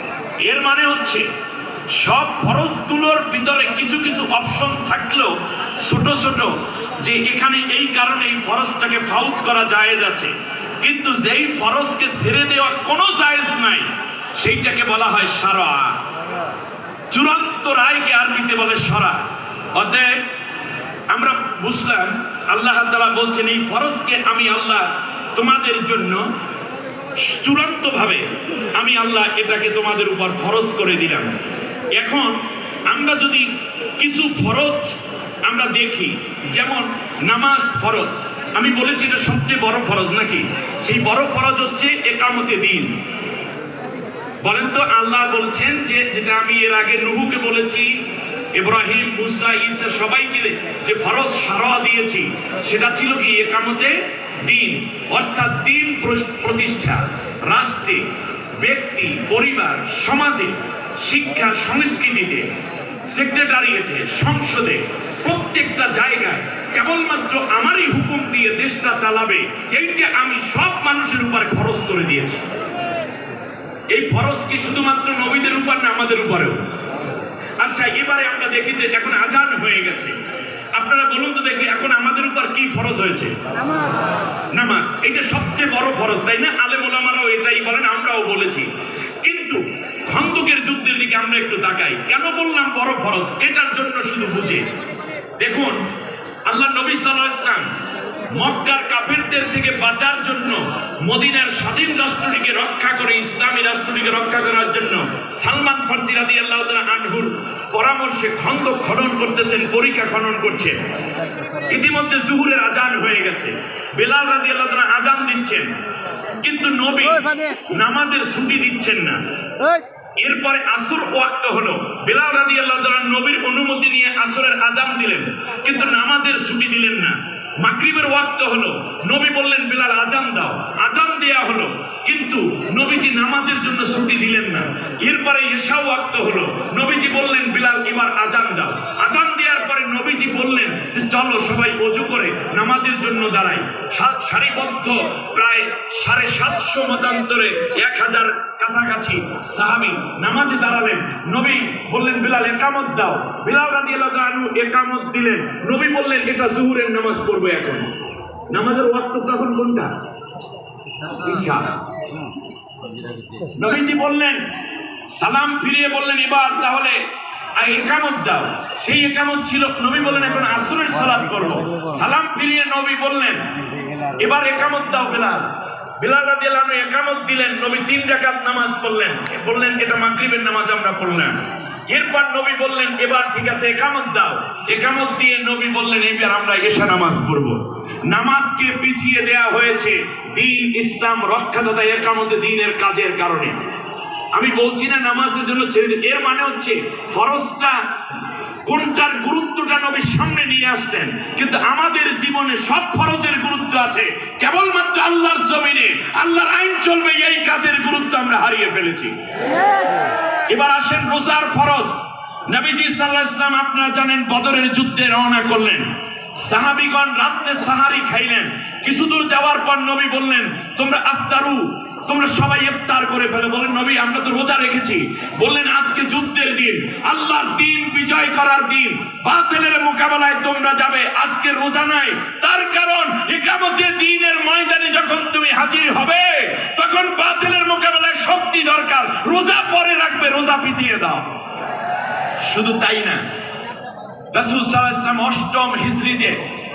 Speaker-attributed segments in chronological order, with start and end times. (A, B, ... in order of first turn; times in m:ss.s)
0:00.4-0:01.3 A
0:01.9-0:16.0 A
0:17.1-0:20.2 A
0:21.1-0:26.2 A
0:27.2-0:31.3 A
0:32.0-0:42.9 A
0:44.4-0:48.0 A
0:48.6-0:58.1 A
0:58.6-1:02.5 A
1:03.1-1:12.4 A
1:13.9-1:16.6 A
1:17.6-1:20.1 A
1:20.7-1:23.3 A
1:24.5-1:28.7 A
1:29.2-1:34.6 A
1:35.4-1:35.8 A
1:36.5-1:37.7 A
1:38.3-1:50.8 A
1:51.6-1:55.7 A
1:56.4-1:59.2 A
2:00.2-2:37.8 A
2:38.5-2:39.9 A
2:41.1-2:41.7 A
2:43.5-2:44.4 A
2:45.1-2:47.0 A
2:47.6-2:53.5 A
2:54.1-3:13.6 A
3:14.3-3:17.8 A
3:18.6-3:29.1 A
3:30.5-4:01.3 A
4:02.4-4:03.2 A
4:04.3-4:06.4 A